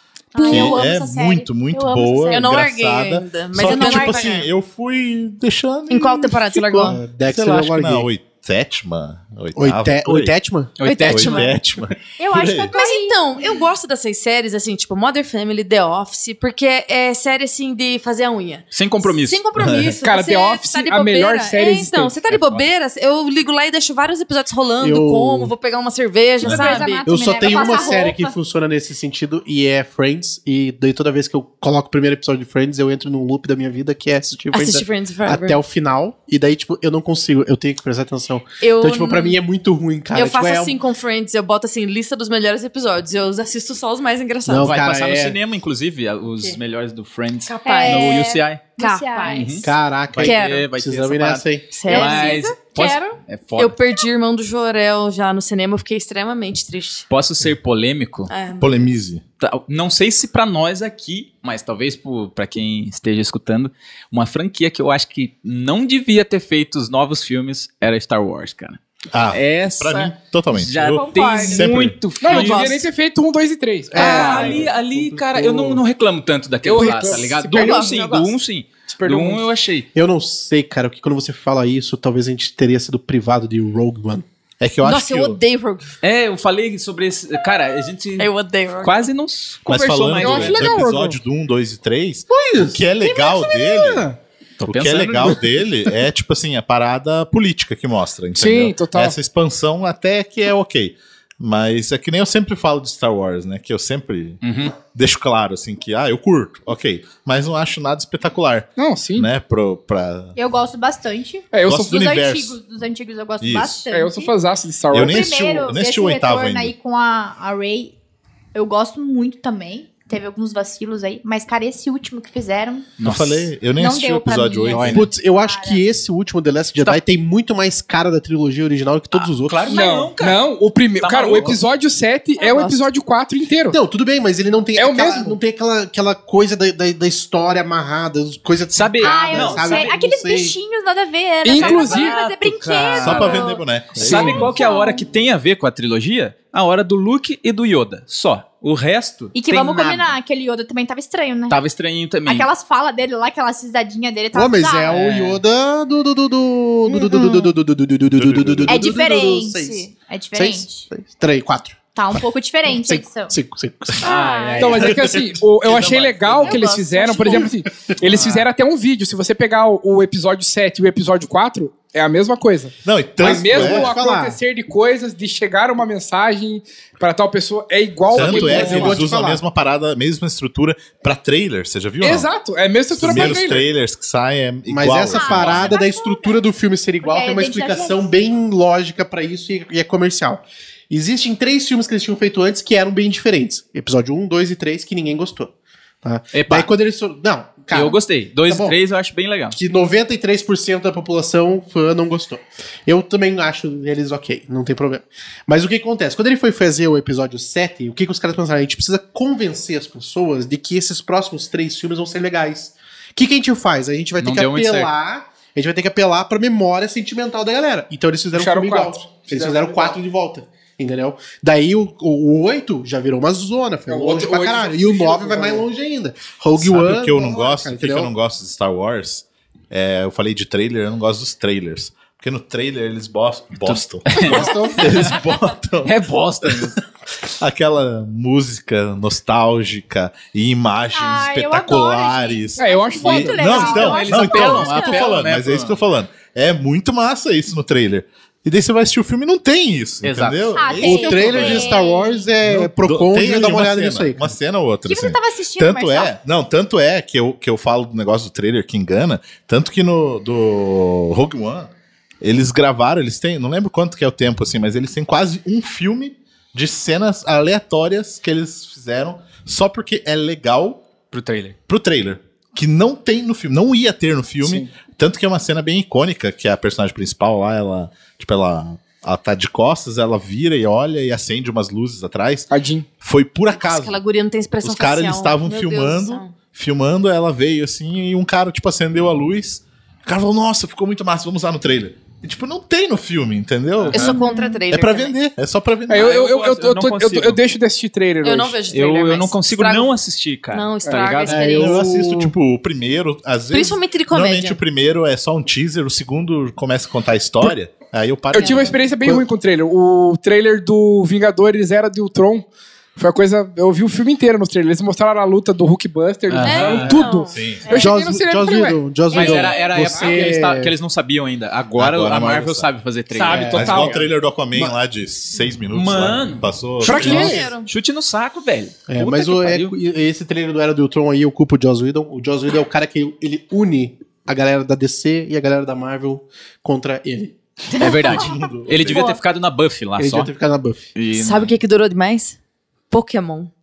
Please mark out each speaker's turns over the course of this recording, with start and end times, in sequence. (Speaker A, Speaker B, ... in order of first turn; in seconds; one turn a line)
Speaker A: 0.3-2.5
Speaker B: 0.3-0.8
Speaker C: 0.4-10.3
Speaker B: 2.3-4.5
Speaker A: 3.6-4.5
Speaker B: 5.9-7.0
Speaker D: 6.8-8.1
Speaker D: 9.5-10.8
Speaker E: 10.8-11.6
Speaker B: 10.8-11.6
Speaker C: 11.1-12.7
Speaker A: 12.2-13.2
Speaker B: 12.7-28.0
Speaker E: 18.7-19.4
Speaker C: 19.6-20.0
Speaker F: 20.0-22.2
Speaker C: 22.3-22.6
Speaker D: 24.8-25.5
Speaker C: 26.4-26.8
Speaker A: 26.4-28.3
Speaker D: 27.0-40.8
Speaker B: 34.5-35.6
Speaker B: 38.6-39.4
Speaker B: 40.1-44.8
Speaker D: 44.5-45.4
Speaker E: 44.6-48.7
Speaker B: 47.5-49.6
Speaker A: 47.6-49.6
Speaker E: 49.3-53.8
Speaker D: 49.6-51.7
Speaker B: 50.2-50.7
Speaker B: 51.7-52.5
Speaker A: 51.9-53.2
Speaker B: 53.5-57.1
Speaker E: 57.1-58.3
Speaker B: 58.3-58.9
Speaker C: 58.6-59.2
Speaker E: 59.4-72.8
Speaker C: 69.1-72.1
Speaker B: 71.0-71.6
Speaker A: 71.1-71.5
Speaker F: 72.2-74.7
Speaker B: 72.3-72.9
Speaker D: 73.9-75.8
Speaker E: 74.0-79.9
Speaker F: 76.6-78.2
Speaker B: 77.5-78.3
Speaker F: 78.9-79.5
Speaker D: 79.9-84.2
Speaker C: 84.6-85.4
Speaker B: 84.8-85.9
Speaker E: 86.0-88.3
Speaker B: 88.2-89.0
Speaker E: 88.8-90.8
Speaker C: 89.7-94.1
Speaker F: 90.2-91.2
Speaker D: 92.3-94.2
Speaker E: 94.6-95.4
Speaker C: 94.6-110.3
Speaker F: 98.3-99.2
Speaker E: 104.4-104.8
Speaker F: 108.8-109.3
Speaker A: 110.3-114.3
Speaker F: 111.5-112.0
Speaker C: 111.6-112.6
Speaker C: 113.4-113.8
Speaker F: 113.9-115.3
Speaker C: 114.9-116.7
Speaker A: 115.0-117.9
Speaker A: 118.5-122.9
Speaker E: 123.0-123.5
Speaker C: 123.0-125.1
Speaker A: 123.8-125.8
Speaker E: 124.7-125.0
Speaker D: 124.9-129.8
Speaker E: 129.1-130.4
Speaker F: 129.7-133.8
Speaker E: 131.0-131.6
Speaker B: 132.4-132.8
Speaker D: 133.7-140.6
Speaker F: 134.8-135.4
Speaker E: 138.7-139.8
Speaker A: 139.0-145.1
Speaker F: 141.4-142.2
Speaker E: 141.6-150.2
Speaker C: 143.0-144.6
Speaker A: 149.3-151.6
Speaker E: 151.5-152.5
Speaker A: 152.2-154.9
Speaker D: 154.3-164.1
Speaker E: 154.9-155.4
Speaker A: 156.9-157.5
Speaker C: 158.1-158.8
Speaker A: 158.7-160.9
Speaker A: 161.9-163.3
Speaker A: 164.0-164.6
Speaker E: 164.0-165.0
Speaker B: 164.1-164.5
Speaker F: 164.6-179.0
Speaker C: 164.8-166.7
Speaker D: 164.8-165.2
Speaker B: 166.4-167.5
Speaker D: 167.4-167.9
Speaker E: 168.1-168.4
Speaker C: 172.8-173.9
Speaker D: 173.2-174.4
Speaker D: 178.1-179.4
Speaker C: 178.1-182.3
Speaker F: 182.0-183.7
Speaker C: 182.9-185.8
Speaker D: 183.0-183.4
Speaker D: 184.7-195.5
Speaker A: 185.1-186.4
Speaker A: 187.0-188.1
Speaker D: 196.0-198.8
Speaker E: 196.3-196.7
Speaker E: 197.7-199.6
Speaker D: 199.5-228.1
Speaker E: 214.2-214.9
Speaker F: 218.3-220.0
Speaker F: 223.9-225.6
Speaker C: 226.6-251.8
Speaker E: 233.6-235.3
Speaker D: 234.2-235.1
Speaker E: 235.8-236.8
Speaker A: 240.9-245.1
Speaker F: 242.6-244.3
Speaker E: 243.4-245.8
Speaker E: 250.0-250.8
Speaker A: 250.6-252.3
Speaker D: 250.8-254.3
Speaker C: 252.4-270.8
Speaker A: 254.9-256.1
Speaker E: 271.1-271.6
Speaker C: 271.7-284.0
Speaker F: 274.4-274.7
Speaker F: 282.5-282.9
Speaker B: 283.5-286.4
Speaker C: 284.6-296.1
Speaker E: 293.8-294.1
Speaker B: 293.9-295.1
Speaker A: 294.2-294.6
Speaker F: 295.9-298.6
Speaker E: 295.9-297.4
Speaker B: 298.2-299.9
Speaker E: 298.7-301.4
Speaker B: 300.5-301.8
Speaker F: 300.8-301.5
Speaker D: 301.2-302.3
Speaker C: 301.5-308.8
Speaker B: 303.5-304.6
Speaker F: 308.3-312.4
Speaker B: 308.4-308.8
Speaker F: 313.0-320.4
Speaker E: 316.3-317.0
Speaker B: 316.4-317.4
Speaker C: 317.3-317.7
Speaker D: 317.7-320.7
Speaker E: 319.1-323.9
Speaker C: 321.8-322.7
Speaker F: 323.1-324.1
Speaker D: 323.3-323.8
Speaker C: 323.3-327.5
Speaker D: 324.5-324.8
Speaker E: 325.7-326.5
Speaker F: 326.8-327.5
Speaker B: 326.8-327.7
Speaker E: 327.0-329.7
Speaker D: 328.9-337.3
Speaker B: 337.8-338.1
Speaker E: 337.8-340.3
Speaker C: 338.0-339.1
Speaker D: 340.0-340.8
Speaker E: 340.9-341.5
Speaker B: 341.1-342.4
Speaker B: 342.9-343.5